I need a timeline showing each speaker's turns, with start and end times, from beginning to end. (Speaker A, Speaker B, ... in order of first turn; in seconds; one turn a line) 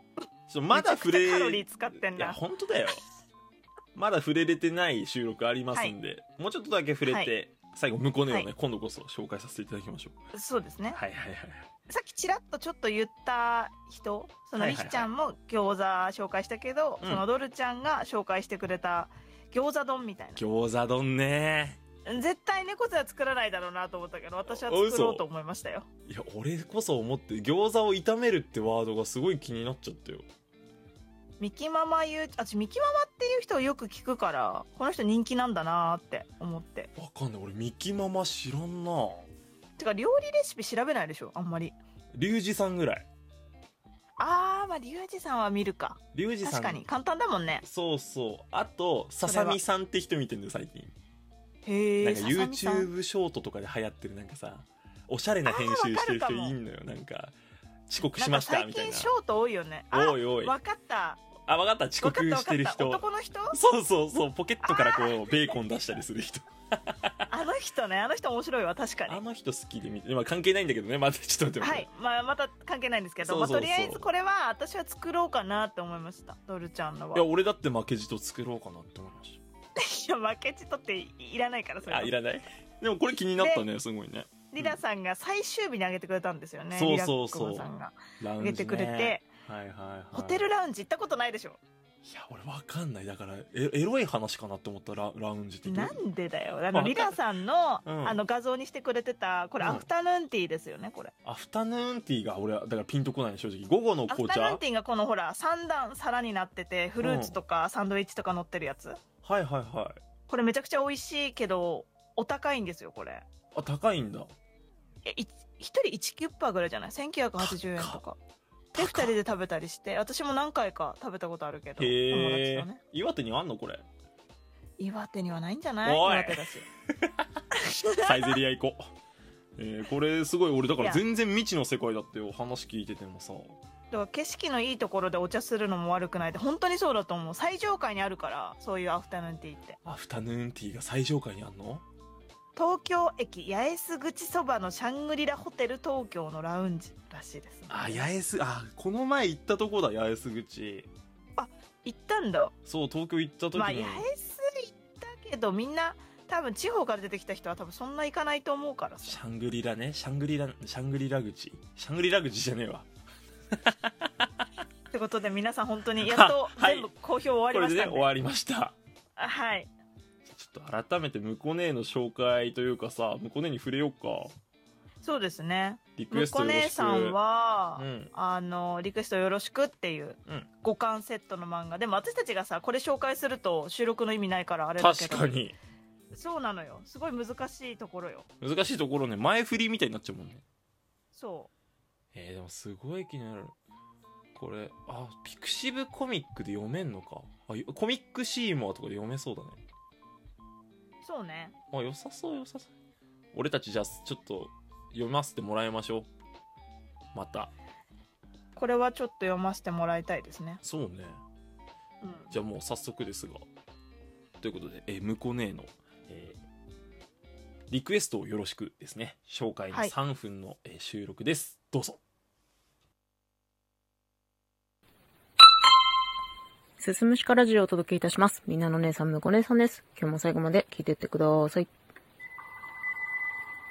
Speaker A: 0.5-3.0
Speaker B: 0.7-2.4
Speaker A: 3.9-10.2
Speaker B: 7.0-7.3
Speaker B: 10.3-11.0
Speaker A: 10.9-11.7
Speaker B: 11.9-20.4
Speaker A: 14.6-15.1
Speaker A: 20.4-21.8
Speaker B: 22.1-25.9
Speaker A: 24.4-25.2
Speaker A: 26.1-30.3
Speaker B: 31.4-36.9
Speaker A: 37.0-39.3
Speaker B: 39.8-41.8
Speaker A: 42.1-43.1
Speaker B: 44.2-47.6
Speaker A: 46.1-46.8
Speaker A: 47.6-50.9
Speaker B: 49.2-49.6
Speaker B: 51.6-52.9
Speaker A: 52.0-57.4
Speaker B: 55.5-56.5
Speaker A: 57.9-59.1
Speaker B: 58.2-61.2
Speaker A: 59.9-60.5
Speaker A: 61.4-67.1
Speaker B: 62.0-63.6
Speaker B: 64.6-65.6
Speaker B: 67.3-69.2
Speaker A: 69.1-71.9
Speaker B: 71.6-77.2
Speaker A: 73.2-74.1
Speaker A: 77.1-79.4
Speaker B: 79.8-82.1
Speaker A: 81.8-84.8
Speaker B: 83.4-83.7
Speaker B: 84.5-89.3
Speaker A: 86.7-87.7
Speaker A: 88.2-90.5
Speaker B: 90.1-91.6
Speaker A: 92.0-96.0
Speaker B: 95.6-101.1
Speaker A: 96.7-97.2
Speaker A: 97.8-98.2
Speaker A: 99.6-99.9
Speaker A: 101.2-104.6
Speaker B: 104.1-109.0
Speaker A: 107.0-107.4
Speaker A: 109.2-110.0
Speaker B: 110.3-113.2
Speaker A: 113.5-114.3
Speaker B: 115.1-118.2
Speaker A: 117.4-118.0
Speaker A: 118.8-119.2
Speaker B: 118.8-122.8
Speaker A: 121.8-123.8
Speaker B: 124.8-126.7
Speaker A: 125.8-127.3
Speaker B: 127.5-128.3
Speaker A: 128.0-128.8
Speaker A: 129.6-133.6
Speaker B: 130.8-131.0
Speaker B: 133.9-139.8
Speaker A: 139.8-141.8
Speaker B: 142.6-148.1
Speaker A: 147.7-150.9
Speaker B: 151.4-152.5
Speaker A: 152.7-154.1
Speaker B: 153.5-159.2
Speaker A: 159.0-162.9
Speaker A: 163.6-164.3
Speaker B: 164.9-168.1
Speaker A: 166.0-166.9
Speaker A: 167.5-168.8
Speaker B: 169.2-169.7
Speaker A: 170.2-174.3
Speaker B: 175.0-185.4
Speaker A: 176.0-177.2
Speaker A: 177.8-178.1
Speaker A: 184.8-185.6
Speaker B: 186.1-188.2
Speaker A: 188.4-190.4
Speaker B: 191.1-191.5
Speaker A: 192.1-193.5
Speaker A: 194.3-199.6
Speaker B: 201.0-201.5
Speaker A: 201.7-202.7
Speaker A: 203.3-206.1
Speaker A: 207.2-207.5
Speaker B: 208.6-210.6
Speaker A: 210.6-211.2
Speaker B: 212.0-212.3
Speaker A: 212.3-213.4
Speaker A: 214.4-216.4
Speaker A: 217.7-222.0
Speaker C: 226.8-231.7